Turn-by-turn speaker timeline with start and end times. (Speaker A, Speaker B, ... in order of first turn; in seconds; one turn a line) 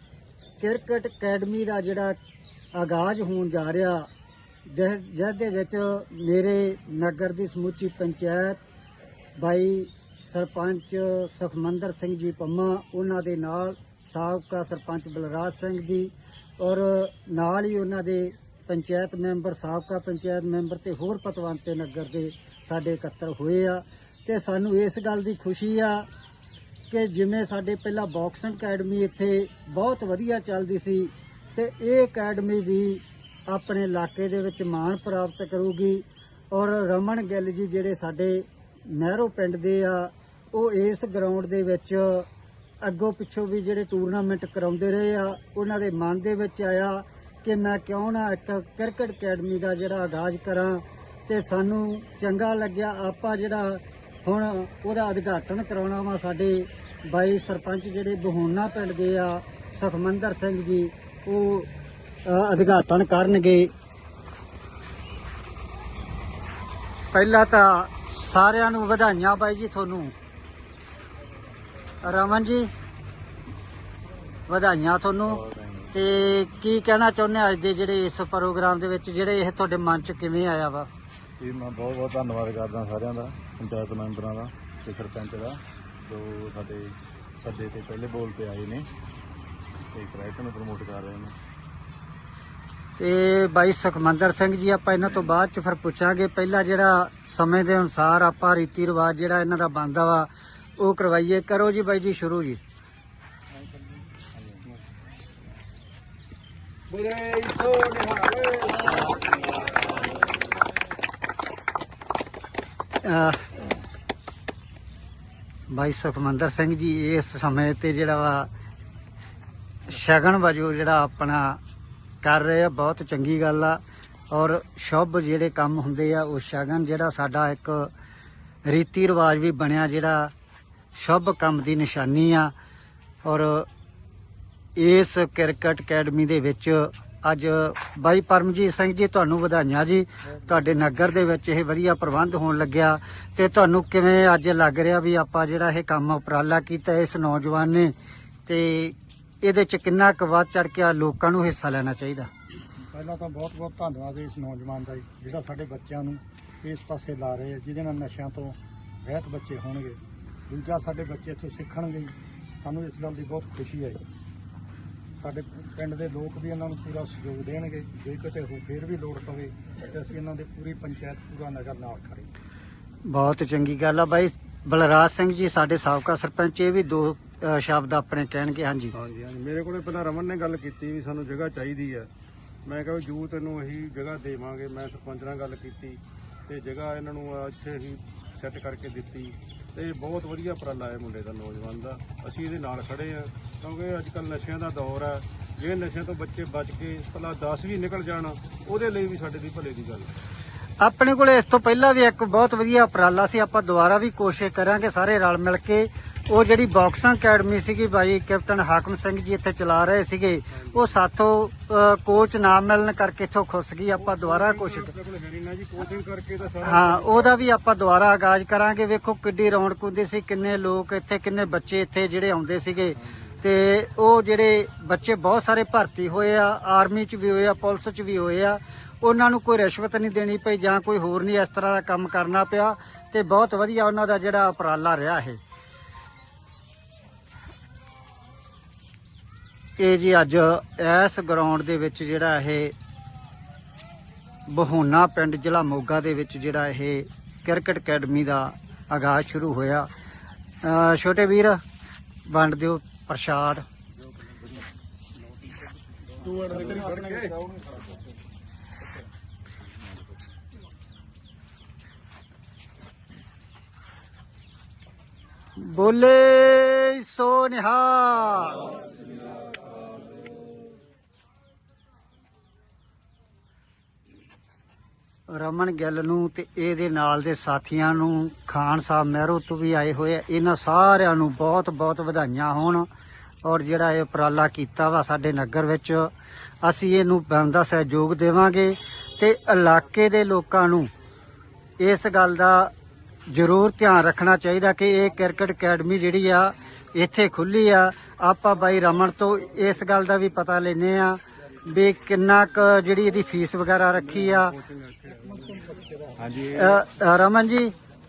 Speaker A: 0.6-2.2
Speaker A: 2.7-4.1
Speaker A: 4.7-8.6
Speaker A: 9.4-26.1
Speaker A: 26.9-42.3
Speaker A: 42.8-61.7
Speaker A: 62.2-63.7
Speaker A: 67.1-70.1
Speaker A: 72.0-72.7
Speaker A: 74.5-75.4
Speaker B: 75.3-76.1
Speaker A: 75.9-80.9
Speaker B: 81.4-88.9
Speaker B: 89.9-91.3
Speaker A: 93.0-102.6
Speaker B: 104.3-104.6
Speaker C: 106.9-108.7
Speaker A: 113.0-113.5
Speaker A: 115.7-118.5
Speaker A: 119.9-121.6
Speaker A: 122.2-123.8
Speaker A: 124.3-127.9
Speaker A: 128.7-130.3
Speaker A: 130.9-132.5
Speaker A: 133.2-133.7
Speaker A: 134.8-147.9
Speaker A: 148.5-152.3
Speaker D: 152.9-164.0
Speaker D: 165.1-172.3
Speaker A: 173.1-178.9
Speaker C: 179.0-182.1
Speaker C: 182.7-200.1
Speaker A: 200.8-214.9
Speaker C: 214.0-217.4
Speaker A: 216.6-235.4
Speaker A: 239.8-242.7
Speaker A: 244.5-249.9
Speaker A: 250.6-251.6
Speaker A: 252.3-253.6
Speaker D: 256.2-257.4
Speaker C: 256.5-257.4
Speaker A: 265.6-268.7
Speaker A: 275.3-282.9
Speaker A: 283.4-290.9
Speaker A: 291.8-292.7
Speaker A: 293.3-304.6
Speaker C: 304.1-305.1
Speaker D: 305.1-306.2
Speaker B: 306.2-306.8
Speaker A: 306.6-307.7